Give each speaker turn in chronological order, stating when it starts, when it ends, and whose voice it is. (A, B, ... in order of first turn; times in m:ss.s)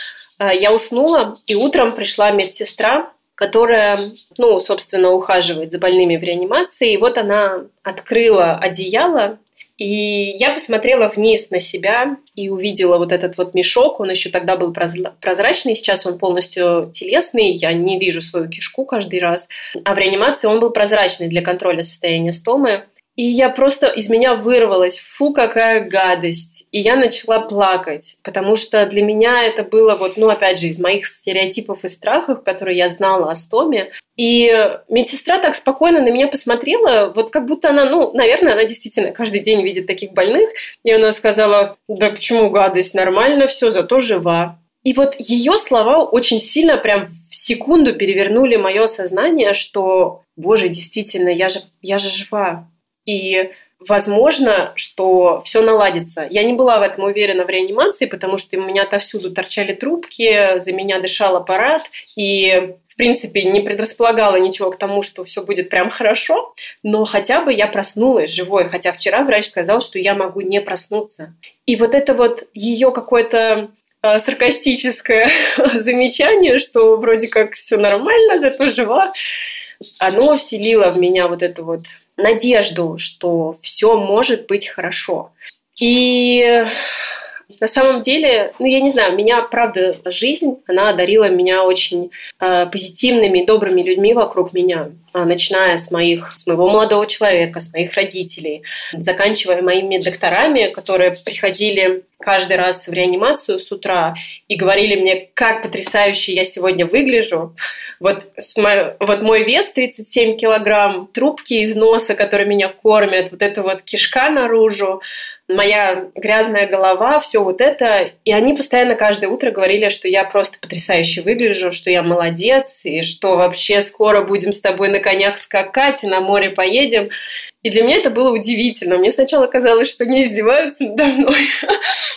0:00.4-1:19.1 A
1:20.0-1:26.8 A
1:27.6-2:07.1 A
2:07.6-2:11.8 A